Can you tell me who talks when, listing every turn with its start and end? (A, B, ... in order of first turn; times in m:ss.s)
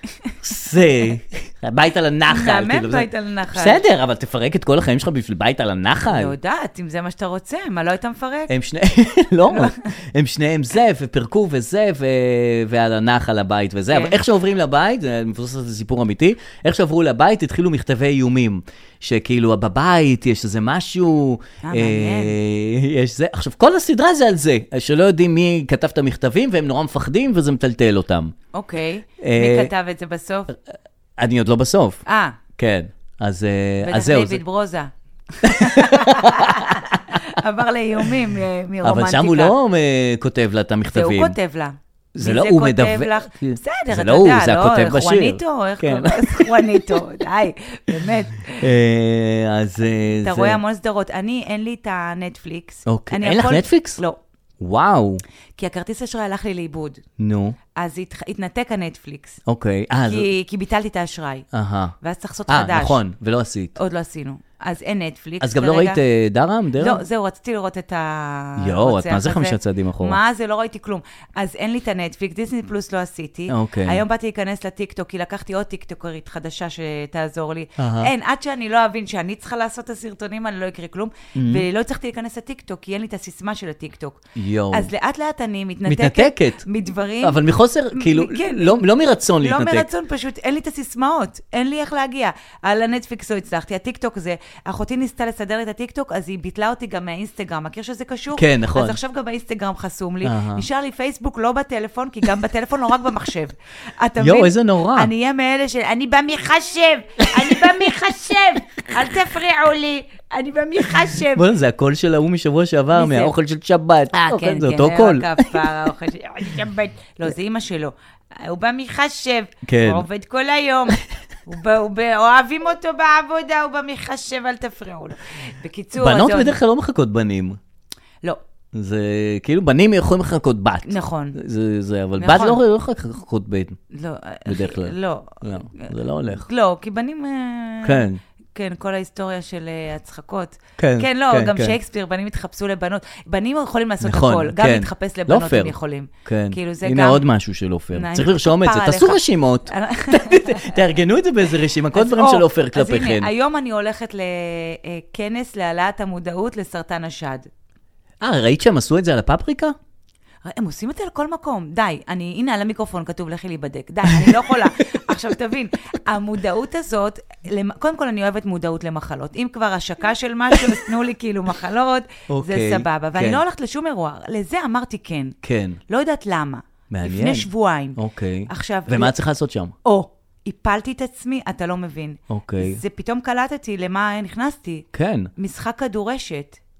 0:00.4-0:06.3 A
0:02.3-0:03.8 B
0:06.0-0:08.5 B
0:08.5-0:28.3 A
0:09.5-0:09.8 B
0:13.9-0:14.2 B
0:21.6-0:22.3 B
0:28.5-0:30.5 B
0:29.2-0:29.7 A
0:31.2-0:32.0 A
0:32.0-0:32.4 B
0:32.6-0:34.4 A
0:33.8-0:39.5 B
0:35.4-0:37.2 A
0:38.8-0:41.4 A
0:40.9-0:48.6 B
0:42.1-0:47.0 A
0:48.6-0:50.6 A
0:50.2-0:54.2 B
0:52.8-0:54.0 A
0:54.6-0:55.2 A
0:55.6-0:57.0 B
0:57.2-0:57.6 A
0:57.7-0:59.4 B
0:59.4-1:00.3 A
1:00.0-1:01.4 B
1:01.5-1:01.9 A
1:02.0-1:03.0 B
1:02.5-1:03.8 A
1:03.8-1:06.0 B
1:05.4-1:07.0 A
1:06.8-1:27.4 B
1:08.6-1:10.2 A
1:13.5-1:14.0 A
1:17.8-1:18.1 A
1:21.3-1:21.6 A
1:24.4-1:24.9 A
1:25.8-1:26.6 A
1:27.2-1:29.8 A
1:27.9-1:28.8 B
1:29.4-1:51.5 B
1:38.3-1:39.0 A
1:40.2-1:40.6 A
1:44.2-1:45.1 A
1:47.2-1:47.6 A
1:51.2-1:55.8 A
1:52.9-1:53.3 B
1:54.1-2:06.6 B
1:59.6-2:00.0 A
2:06.0-2:07.6 A
2:08.7-2:13.8 A
2:10.8-2:11.4 B
2:12.2-2:12.6 B
2:13.9-2:27.2 B
2:14.4-2:16.4 A
2:17.8-2:18.2 A
2:20.8-2:21.8 A
2:24.0-2:25.7 A
2:26.2-2:33.3 A
2:27.9-2:30.8 B
2:31.9-2:37.5 B
2:38.2-2:39.7 A
2:40.4-2:55.4 B
2:52.3-2:53.4 A
2:55.4-2:55.8 A
2:55.9-2:59.1 B
2:56.9-2:59.7 A
2:59.8-3:06.6 B
3:02.3-3:02.8 A
3:04.9-3:05.3 A